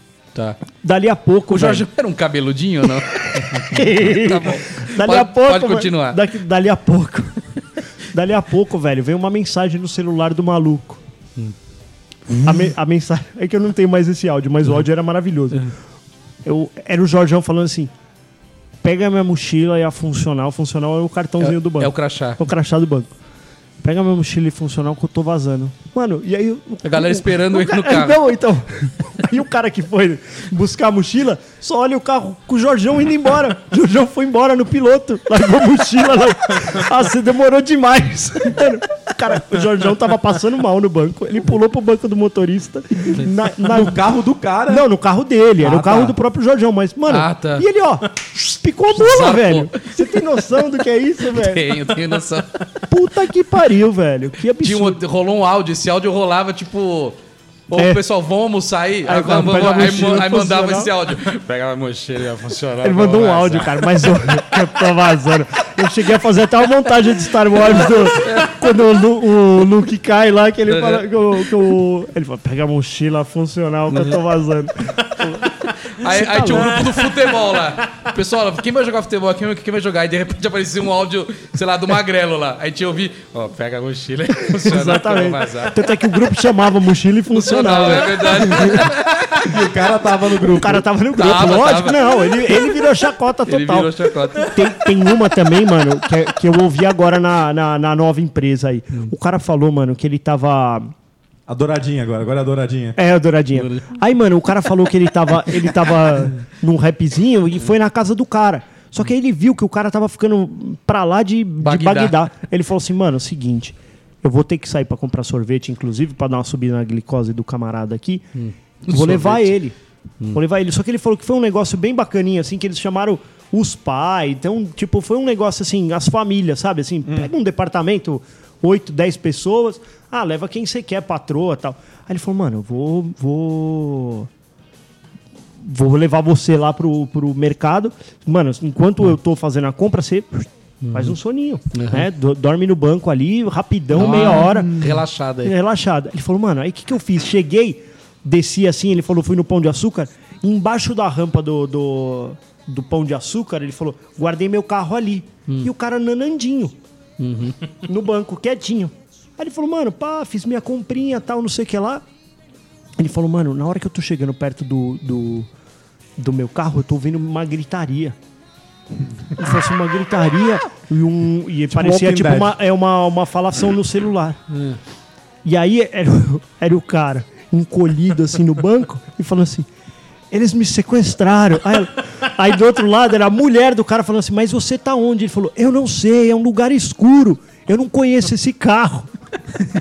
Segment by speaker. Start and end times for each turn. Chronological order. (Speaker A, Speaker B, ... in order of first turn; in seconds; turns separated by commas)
Speaker A: 0.8-1.9, Speaker B: 1.5-6.2, Speaker A: 3.4-7.4, Speaker A: 8.1-11.0, Speaker A: 12.4-15.7, Speaker A: 16.4-17.9, Speaker A: 18.8-23.1, Speaker B: 21.4-22.4, Speaker A: 23.8-44.0, Speaker B: 26.8-28.2, Speaker C: 43.6-44.9, Speaker A: 44.7-51.8, Speaker B: 47.1-47.6, Speaker B: 48.9-50.2, Speaker B: 51.3-52.7, Speaker A: 52.9-55.0, Speaker B: 54.6-57.2, Speaker B: 57.7-64.4, Speaker A: 57.7-58.0, Speaker A: 59.0-60.9, Speaker A: 62.8-77.0, Speaker B: 67.7-68.7, Speaker B: 70.7-71.7, Speaker B: 73.9-74.2, Speaker B: 75.6-85.9, Speaker A: 84.5-88.8, Speaker B: 87.3-89.5, Speaker C: 88.6-88.9, Speaker C: 89.4-90.8, Speaker A: 90.6-100.9, Speaker B: 91.1-94.7, Speaker C: 101.5-103.0, Speaker A: 103.0-118.2, Speaker B: 103.5-103.9, Speaker B: 111.6-112.2, Speaker B: 118.3-119.5, Speaker A: 118.8-119.7, Speaker A: 120.3-134.3, Speaker A: 135.6-144.8, Speaker B: 140.8-141.2, Speaker B: 141.7-142.1, Speaker B: 143.9-145.5, Speaker A: 145.4-156.8, Speaker B: 157.2-157.6, Speaker A: 157.8-162.0, Speaker A: 163.0-165.5, Speaker A: 166.2-168.2, Speaker A: 169.3-174.4, Speaker C: 171.7-172.6, Speaker B: 174.5-174.8, Speaker A: 175.4-179.7, Speaker A: 180.3-189.1